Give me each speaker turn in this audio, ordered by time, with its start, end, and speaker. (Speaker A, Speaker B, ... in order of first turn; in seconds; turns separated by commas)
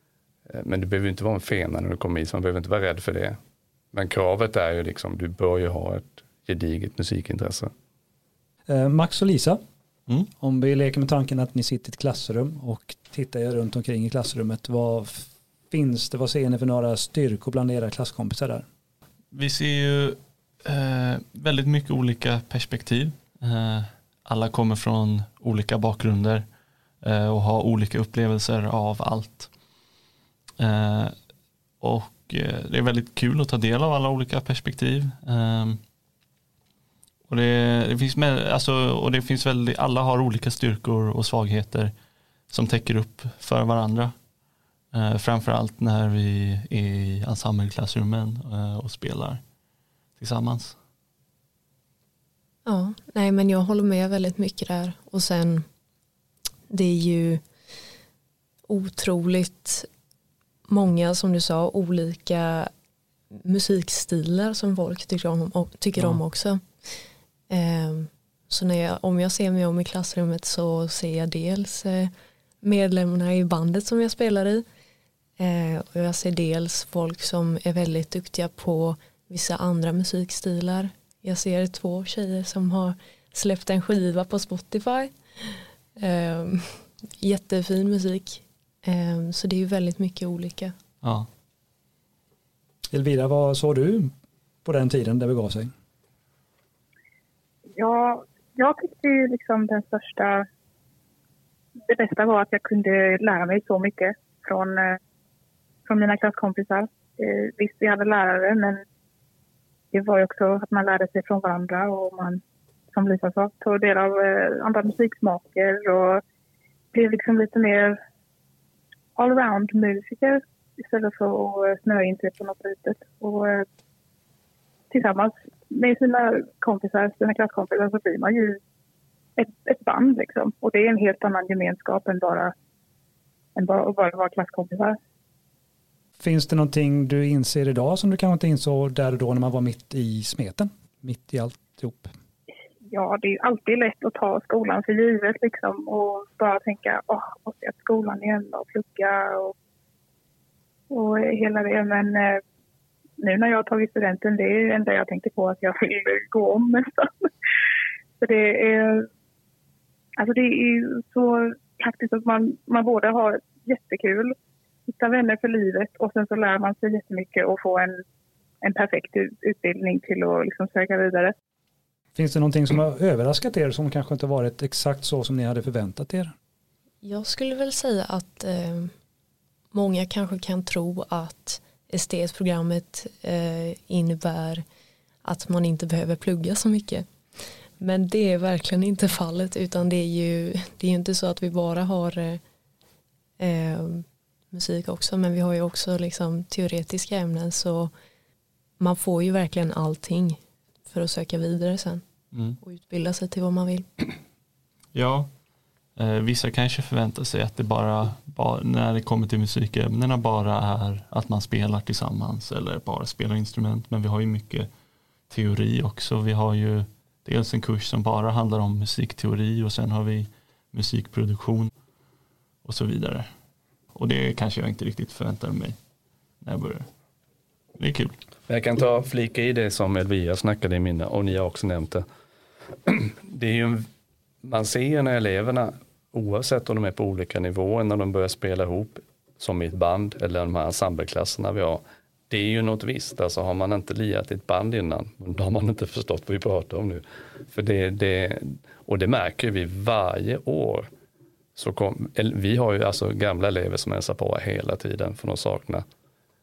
Speaker A: 0.5-3.4, Speaker A: 3.9-7.7, Speaker B: 8.7-9.6, Speaker B: 10.4-18.7, Speaker C: 19.3-26.4, Speaker C: 27.0-29.5, Speaker C: 30.6-31.1, Speaker C: 31.8-35.8, Speaker C: 37.3-41.9, Speaker C: 42.5-44.1, Speaker C: 44.9-49.4, Speaker C: 50.2-50.8, Speaker D: 52.7-55.7, Speaker D: 56.7-57.4, Speaker D: 58.7-59.9, Speaker D: 60.7-62.7, Speaker D: 63.3-66.6, Speaker D: 67.5-74.7, Speaker D: 75.4-90.8, Speaker C: 91.0-91.3, Speaker B: 92.9-94.1, Speaker B: 94.7-95.7, Speaker E: 97.8-100.4, Speaker E: 101.9-105.0, Speaker E: 105.9-108.8, Speaker E: 109.9-112.4, Speaker E: 112.9-116.2, Speaker E: 116.9-118.0, Speaker E: 119.2-123.7, Speaker E: 124.9-128.6, Speaker E: 129.4-132.5, Speaker E: 133.6-134.9, Speaker B: 136.2-142.1, Speaker E: 142.9-149.5, Speaker E: 150.9-152.4, Speaker E: 153.2-157.3, Speaker E: 158.2-159.1, Speaker E: 160.2-164.3, Speaker E: 164.9-167.9, Speaker E: 168.6-171.3, Speaker B: 172.2-176.3, Speaker D: 177.0-178.9, Speaker D: 179.7-184.6, Speaker D: 185.2-187.1, Speaker D: 187.8-192.4, Speaker D: 193.4-197.9, Speaker D: 198.8-202.0, Speaker C: 202.3-202.6, Speaker D: 202.6-203.9, Speaker C: 204.9-205.3, Speaker C: 206.0-214.7, Speaker C: 215.3-221.7, Speaker C: 222.6-223.3, Speaker C: 223.9-225.8, Speaker C: 226.4-226.9, Speaker C: 227.8-228.2, Speaker A: 228.5-232.1, Speaker A: 232.9-233.9, Speaker A: 234.4-250.9, Speaker A: 251.6-255.8